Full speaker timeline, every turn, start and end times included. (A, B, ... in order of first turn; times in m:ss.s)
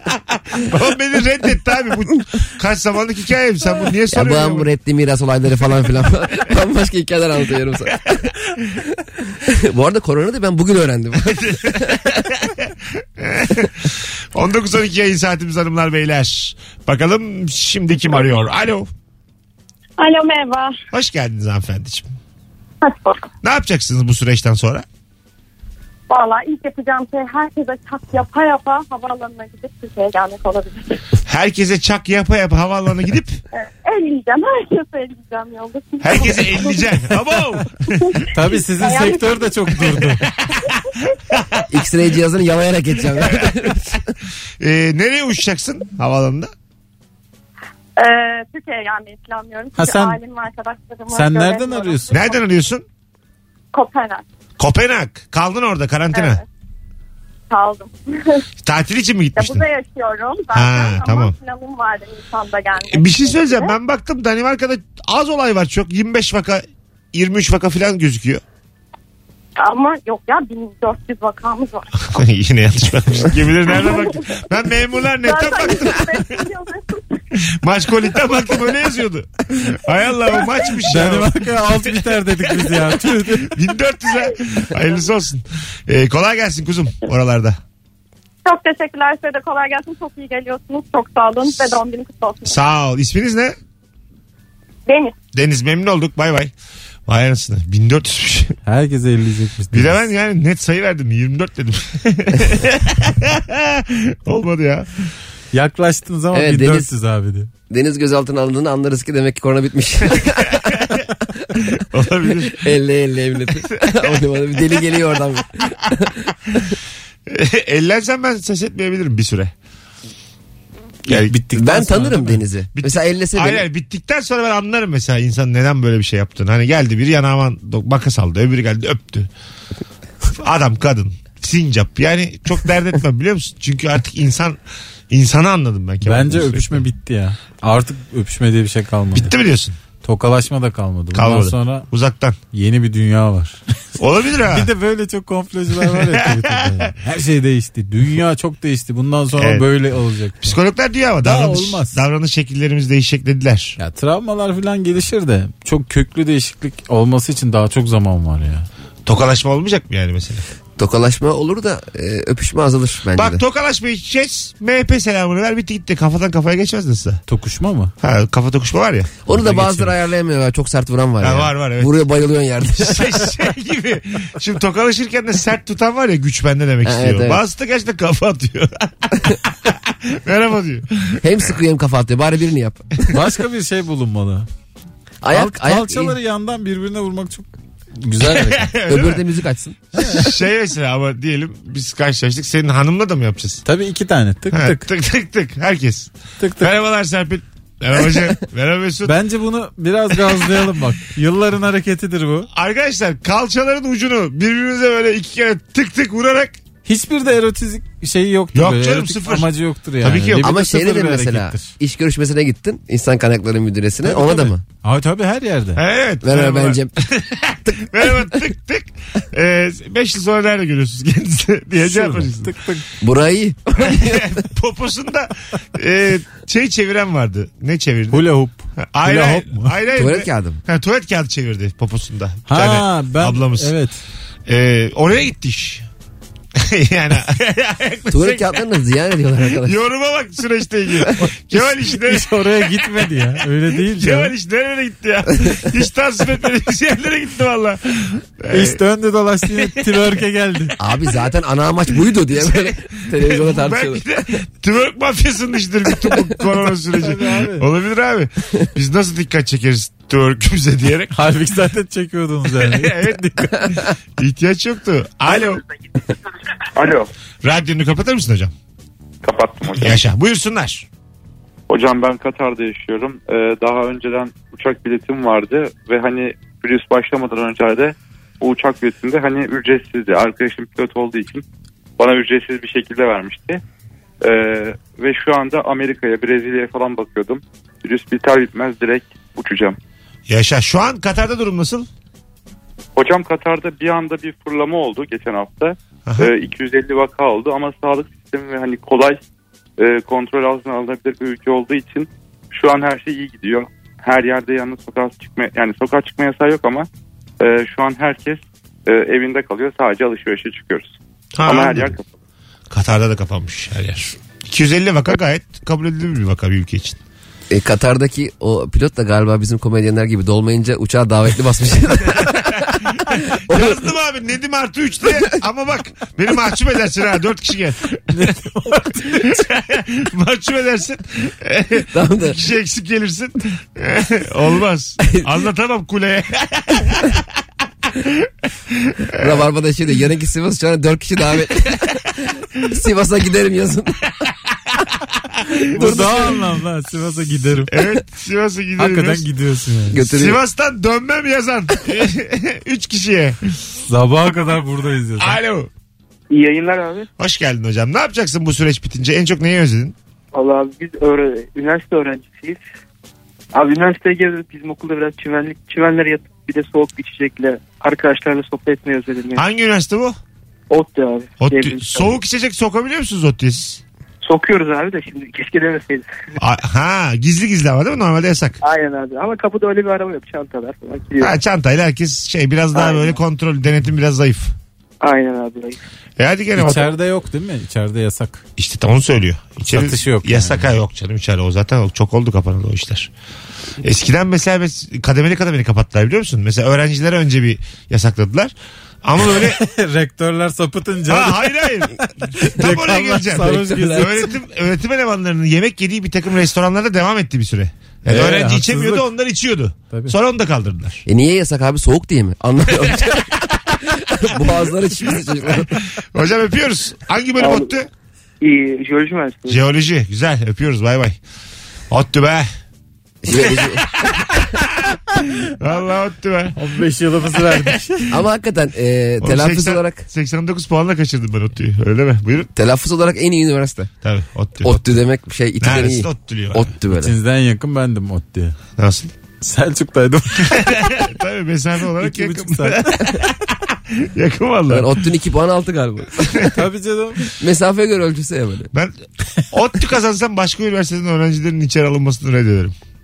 0:00.3-0:04.7 A
0:04.1-0:12.1 B
0:11.3-0:18.9 A
0:20.0-0:20.8 C
0:20.9-0:22.1 A
0:22.8-0:23.2 C
0:23.4-0:24.8 A
0:26.1-0:31.0 C
0:31.2-0:33.4 A
0:33.5-0:36.9 C
0:36.0-0:38.2 A
0:38.3-0:40.2 D
0:38.8-0:39.5 C
0:40.3-0:40.7 A
0:41.3-0:41.6 A
0:41.7-0:44.1 B
0:43.2-0:43.7 A
0:44.6-0:46.5 A
0:48.0-0:52.4 C
0:49.8-0:50.2 D
0:51.1-0:52.3 D
0:52.1-0:52.8 A
0:53.7-0:54.2 C
0:54.6-0:56.4 A
0:56.1-0:56.4 C
0:57.5-0:58.4 C
0:58.6-0:59.6 A
0:59.4-1:03.7 C
1:00.5-1:01.3 A
1:02.8-1:08.4 A
1:09.6-1:11.9 C
1:12.0-1:16.4 A
1:13.7-1:14.2 C
1:15.1-1:17.2 C
1:17.4-1:21.3 A
1:20.9-1:23.6 D
1:23.4-1:27.6 A
1:28.4-1:32.6 C
1:32.4-1:33.6 A
1:34.9-1:35.1 C
1:35.3-1:36.5 A
1:37.1-1:38.6 A
1:38.6-1:40.1 D
1:39.7-1:45.1 A
1:45.5-1:47.5 D
1:46.3-1:46.9 B
1:47.7-1:51.0 B
1:51.6-1:52.7 A
1:52.3-1:56.8 B
1:57.3-1:59.5 A
2:01.1-2:02.4 D
2:01.1-2:01.4 A
2:01.5-2:03.6 B
2:02.7-2:09.3 A
2:10.3-2:14.6 A
2:15.1-2:16.8 A
2:16.0-2:19.3 D
2:19.1-2:19.8 A
2:20.0-2:21.9 D
2:21.1-2:22.4 A
2:22.5-2:23.6 D
2:24.0-2:24.7 A
2:24.5-2:30.6 D
2:25.8-2:26.7 A
2:29.4-2:29.7 A
2:30.4-2:33.8 A
2:31.2-2:32.0 D
2:33.8-2:38.7 D
2:39.1-2:40.4 A
2:40.8-2:43.4 B
2:43.1-2:47.2 A
2:47.3-2:47.9 D
2:48.0-2:49.2 A
2:49.2-2:53.4 B
2:49.3-2:49.9 D
2:51.2-2:52.0 A
2:52.7-3:01.2 A
2:56.8-2:57.4 B
3:01.2-3:02.9 B
3:03.1-3:04.5 D
3:05.2-3:06.2 B
3:05.3-3:08.7 D
3:08.4-3:09.2 A
3:08.9-3:09.8 B
3:10.0-3:10.2 D
3:10.0-3:13.6 A
3:13.6-3:14.8 D
3:14.5-3:19.1 A
3:16.4-3:16.7 D
3:19.0-3:22.5 D
3:22.5-3:26.6 A
3:26.8-3:31.7 D
3:28.5-3:29.5 A
3:30.0-3:30.5 A
3:30.4-3:34.6 B
3:34.2-3:35.8 D
3:35.8-3:42.5 A
3:36.2-3:37.1 B
3:37.6-3:38.2 B
3:41.8-3:42.8 D
3:43.0-3:44.4 B
3:43.8-3:48.3 A
3:48.1-3:49.8 D
3:48.9-3:53.7 A
3:49.9-3:50.6 B
3:52.5-3:54.0 D
3:54.5-3:55.8 A
3:56.6-3:58.6 A
3:58.1-3:59.8 B
3:59.5-4:02.9 A
4:01.5-4:04.3 D
4:03.8-4:08.8 A
4:08.5-4:10.8 D
4:10.8-4:14.4 B
4:12.4-4:21.2 A
4:17.0-4:17.6 D
4:21.1-4:23.7 D
4:22.6-4:25.6 A
4:26.8-4:27.1 E
4:27.4-4:28.5 A
4:29.2-4:30.0 E
4:29.8-4:30.9 A
4:31.7-4:41.4 E
4:42.0-4:43.6 E
4:44.2-4:49.8 E
4:50.3-4:51.9 A
4:53.0-4:59.2 E
4:59.8-5:06.9 E
5:07.4-5:12.0 E
5:11.3-5:12.0 A
5:12.7-5:17.0 A
5:17.5-5:22.8 B
5:23.4-5:23.9 B
5:23.5-5:28.0 A
5:28.1-5:29.4 D
5:29.1-5:37.2 A
5:31.9-5:32.4 B
5:35.0-5:35.4 B
5:38.0-5:39.4 A
5:39.2-5:44.1 B
5:45.4-5:46.3 A
5:45.7-5:46.4 B
5:45.7-5:47.7 D
5:47.7-5:49.3 A
5:48.8-5:50.0 D
5:49.9-5:50.4 B
5:49.9-5:53.4 A
5:53.9-5:55.4 D
5:55.2-5:55.7 A
5:56.3-5:57.1 F
5:57.2-6:00.0 A
6:00.3-6:02.6 F
6:03.5-6:09.4 F
6:09.4-6:10.2 A
6:10.7-6:12.2 F
6:11.4-6:13.8 A
6:14.2-6:16.1 F
6:16.4-6:18.6 A
6:18.6-6:21.4 F
6:21.2-6:24.5 A
6:22.7-6:23.2 F
6:25.0-6:25.8 F
6:26.2-6:26.9 A
6:26.6-6:28.4 D
6:28.6-6:33.1 A
6:29.7-6:30.7 D
6:33.8-6:39.6 A
6:39.4-6:41.5 D
6:41.1-6:51.0 A
6:42.4-6:44.3 D
6:43.5-6:44.1 B
6:48.1-6:49.1 D
6:49.9-6:50.1 D
6:51.0-6:55.7 B
6:56.0-6:57.9 A
6:57.4-6:57.7 F
6:58.4-6:59.7 F
6:59.5-7:01.2 A
7:01.9-7:02.5 A
7:03.2-7:04.4 B
7:03.3-7:03.6 A
7:04.3-7:06.6 A
7:06.5-7:08.1 D
7:08.1-7:10.0 B
7:09.2-7:12.5 A
7:12.5-7:13.9 B
7:14.0-7:14.8 A
7:14.6-7:17.1 B
7:15.6-7:16.7 A
7:16.9-7:18.6 D
7:18.8-7:19.1 A
7:19.4-7:20.9 D
7:20.5-7:25.0 A
7:22.0-7:23.0 D
7:24.7-7:26.5 B
7:26.5-7:27.3 D
7:27.4-7:28.7 B
7:29.5-7:32.7 A